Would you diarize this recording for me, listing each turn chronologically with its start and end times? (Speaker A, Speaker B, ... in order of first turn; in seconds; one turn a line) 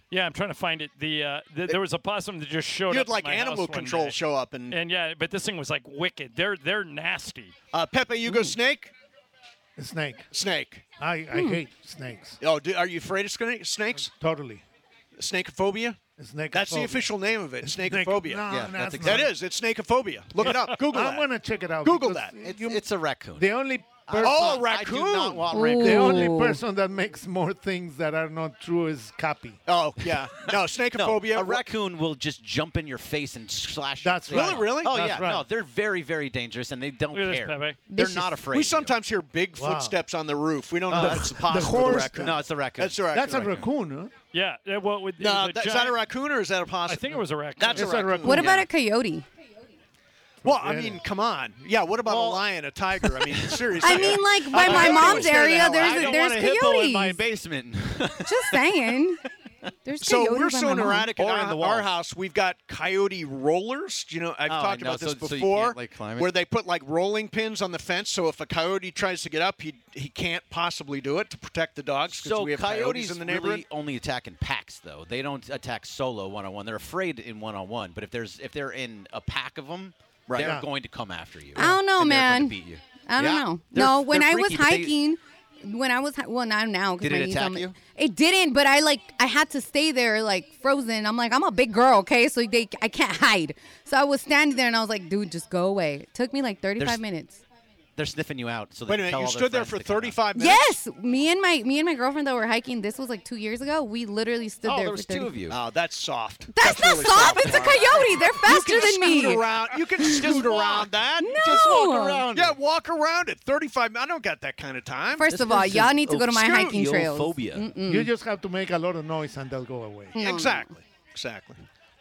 Speaker A: 0.1-4.2
Speaker B: 2.9-4.8
Speaker A: 4.7-7.5
Speaker B: 7.7-8.9
Speaker C: 9.8-10.3
Speaker B: 10.3-10.9
Speaker C: 11.0-12.4
Speaker D: 11.3-11.6
Speaker B: 12.4-14.1
Speaker C: 14.0-14.6
Speaker B: 15.2-16.0
Speaker C: 16.1-17.1
Speaker B: 16.5-18.5
Speaker C: 17.6-19.3
Speaker E: 18.5-19.3
Speaker B: 19.0-21.3
Speaker A: 20.4-20.8
Speaker C: 20.5-24.7
Speaker B: 21.8-22.3
Speaker E: 22.4-23.5
Speaker E: 24.0-26.4
Speaker B: 24.1-25.6
Speaker D: 25.5-26.6
Speaker C: 25.8-29.6
Speaker B: 29.6-31.7
Speaker E: 30.9-38.9
Speaker C: 34.0-35.5
Speaker B: 34.3-35.0
Speaker A: 37.1-37.8
Speaker D: 37.9-38.4
Speaker B: 38.4-43.7
Speaker C: 39.5-40.0
Speaker E: 40.9-43.0
Speaker C: 40.9-42.4
Speaker C: 43.1-44.1
Speaker A: 44.3-46.0
Speaker B: 45.2-48.6
Speaker A: 46.9-48.4
Speaker C: 47.8-48.5
Speaker D: 48.2-49.2
Speaker C: 50.4-51.0
Speaker B: 50.4-56.2
Speaker E: 52.0-52.4
Speaker E: 53.0-58.6
Speaker D: 53.8-57.2
Speaker D: 58.2-59.2
Speaker D: 59.8-61.1
Speaker B: 60.0-73.6
Speaker E: 61.1-61.9
Speaker E: 64.5-66.3
Speaker E: 72.1-84.9
Speaker B: 80.3-80.6
Speaker C: 80.4-80.7
Speaker D: 81.5-97.4
Speaker E: 87.0-87.8
Speaker E: 98.0-100.2
Speaker B: 98.9-100.8
Speaker D: 100.3-105.4
Speaker E: 104.6-105.6
Speaker B: 105.5-111.4
Speaker D: 106.5-112.3
Speaker E: 110.3-110.7
Speaker E: 111.4-112.6
Speaker B: 112.3-115.2
Speaker D: 115.2-118.1
Speaker E: 115.2-117.7
Speaker C: 117.9-120.2
Speaker D: 120.1-120.7
Speaker B: 120.2-121.6